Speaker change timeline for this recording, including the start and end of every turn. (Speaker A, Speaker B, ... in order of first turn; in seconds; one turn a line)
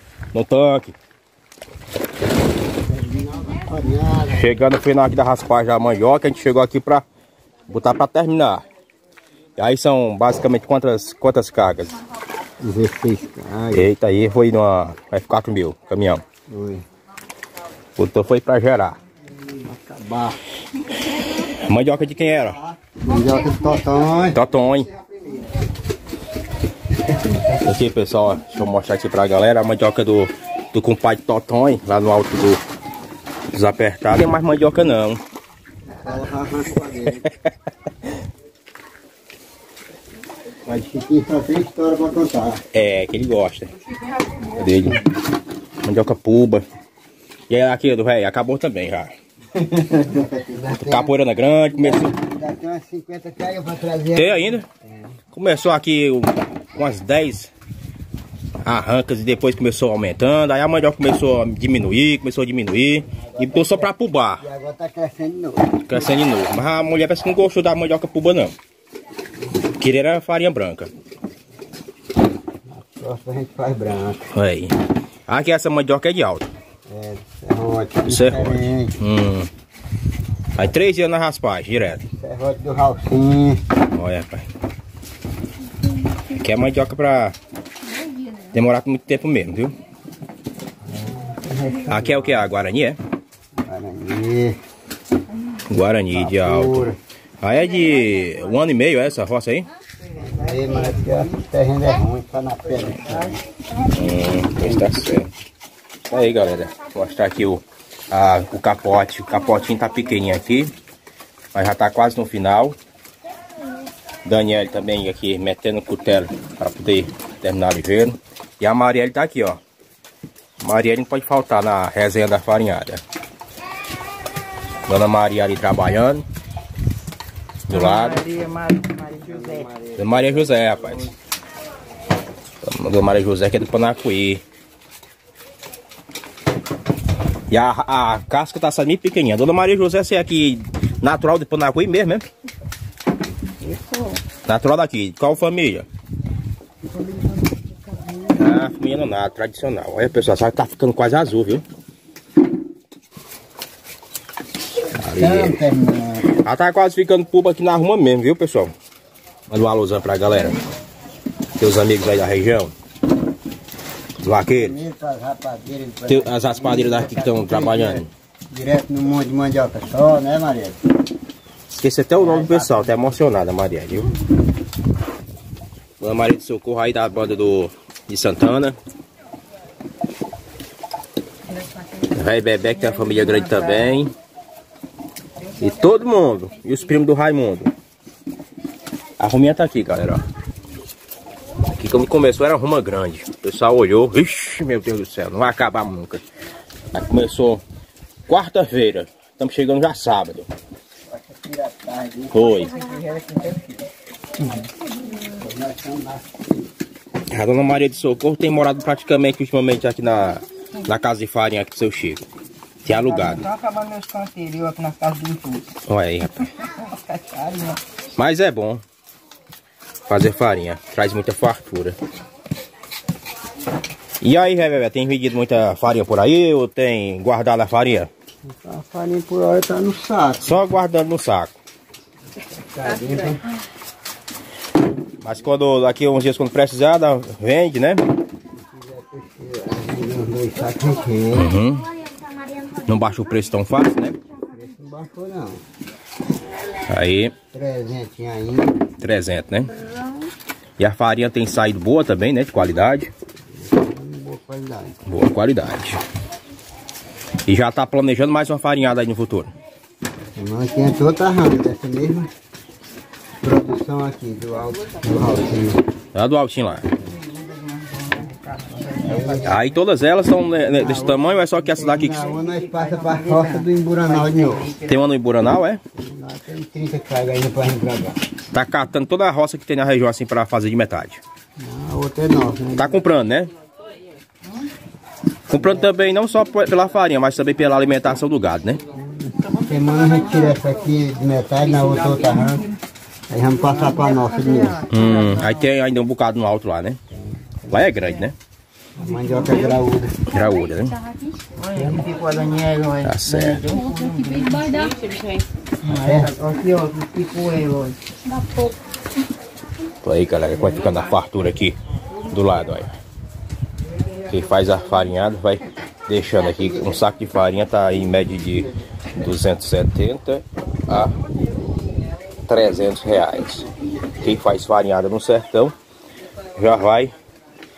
Speaker A: 0.3-0.9
Speaker B: 2.8-4.6
Speaker A: 4.3-7.0
Speaker A: 7.7-8.6
Speaker A: 9.6-12.0
Speaker B: 12.6-13.9
Speaker A: 13.7-16.2
Speaker B: 16.5-16.8
Speaker A: 18.0-19.0
Speaker B: 19.3-20.4
Speaker A: 21.1-22.6
Speaker B: 22.4-24.4
Speaker A: 24.3-24.9
Speaker A: 27.4-32.6
Speaker A: 33.5-35.2
Speaker B: 35.9-37.2
Speaker A: 37.2-37.5
Speaker B: 40.6-42.6
Speaker A: 42.7-43.7
Speaker A: 44.5-45.1
Speaker A: 45.8-46.6
Speaker A: 47.5-49.1
Speaker B: 49.5-55.1
Speaker A: 50.7-52.1
Speaker A: 54.1-54.6
Speaker A: 55.3-57.5
Speaker A: 58.6-64.4
Speaker B: 63.1-66.0
Speaker A: 65.8-68.5
Speaker A: 69.6-70.9
Speaker B: 72.7-74.3
Speaker A: 74.3-74.8
Speaker A: 75.3-76.5
Speaker B: 76.9-79.0
Speaker A: 78.1-79.5
Speaker A: 80.5-82.0
Speaker B: 82.1-83.6
Speaker A: 83.9-84.5
Speaker A: 86.3-87.3
Speaker A: 88.5-89.7
Speaker B: 90.9-92.4
Speaker A: 91.9-93.0
Speaker B: 93.6-94.6
Speaker A: 95.7-96.9
Speaker B: 96.1-97.0
Speaker A: 97.4-99.7
Speaker B: 100.2-103.4
Speaker C: 100.2-100.7
Speaker A: 103.9-105.3
Speaker B: 104.6-104.9
Speaker A: 106.0-110.7
Speaker A: 111.5-112.8
Speaker A: 114.2-119.6
Speaker A: 120.6-123.0
Speaker A: 124.8-126.2
Speaker A: 127.7-128.2
Speaker C: 127.7-129.7
Speaker B: 129.2-131.1
Speaker A: 129.9-131.1
Speaker A: 132.6-134.4
Speaker A: 137.5-142.2
Speaker B: 143.7-144.1
Speaker A: 144.4-145.9
Speaker B: 146.9-148.4
Speaker A: 148.3-151.6
Speaker A: 155.0-155.6
Speaker B: 155.0-156.3
Speaker A: 156.3-158.7
Speaker A: 159.5-160.6
Speaker A: 161.6-162.7
Speaker A: 164.2-164.8
Speaker B: 164.4-170.8
Speaker A: 166.1-168.1
Speaker A: 171.8-174.1
Speaker B: 172.2-173.2
Speaker A: 176.0-178.8
Speaker C: 181.7-182.0
Speaker A: 182.1-184.1
Speaker C: 182.9-183.9
Speaker A: 185.5-187.7
Speaker A: 189.2-190.2
Speaker A: 191.7-196.2
Speaker A: 196.9-197.6
Speaker A: 198.3-200.5
Speaker B: 201.1-203.5
Speaker A: 202.3-202.8
Speaker C: 202.8-203.7
Speaker B: 205.2-206.4
Speaker A: 207.3-212.3
Speaker A: 212.8-213.4
Speaker C: 212.9-215.7
Speaker A: 215.9-216.5
Speaker C: 216.8-217.8
Speaker A: 218.2-218.8
Speaker A: 220.1-221.9
Speaker A: 224.2-228.1
Speaker B: 228.4-230.5
Speaker A: 230.4-231.5
Speaker B: 232.5-233.4
Speaker A: 235.2-238.0
Speaker B: 238.5-241.5
Speaker A: 241.3-241.9
Speaker A: 242.7-244.2
Speaker B: 244.5-245.6
Speaker A: 246.8-247.3
Speaker B: 247.5-248.8
Speaker A: 249.0-249.9
Speaker A: 250.8-253.1
Speaker B: 253.6-255.0
Speaker A: 255.1-256.0
Speaker A: 257.4-259.5
Speaker B: 260.4-262.3
Speaker B: 263.4-265.8
Speaker A: 266.1-266.9
Speaker C: 267.1-269.4
Speaker B: 269.0-269.6
Speaker A: 269.4-272.3
Speaker B: 270.7-274.7
Speaker C: 272.4-274.9
Speaker A: 274.8-275.8
Speaker B: 275.9-278.2
Speaker A: 278.5-281.2
Speaker B: 281.6-283.1
Speaker A: 282.7-283.5
Speaker A: 285.5-288.8
Speaker B: 285.5-285.9
Speaker B: 288.9-292.7
Speaker C: 289.6-290.2
Speaker B: 293.3-294.9
Speaker C: 293.8-295.5
Speaker A: 294.9-297.0
Speaker B: 297.1-298.1
Speaker A: 297.7-298.4
Speaker B: 298.9-300.2
Speaker C: 299.1-299.5
Speaker A: 300.2-301.1
Speaker C: 301.5-308.0
Speaker B: 301.7-302.0
Speaker A: 303.0-303.6
Speaker B: 305.8-306.4
Speaker A: 310.0-311.8
Speaker A: 312.3-312.9
Speaker A: 314.3-321.2
Speaker A: 322.4-323.7
Speaker A: 324.2-325.7
Speaker A: 326.6-327.1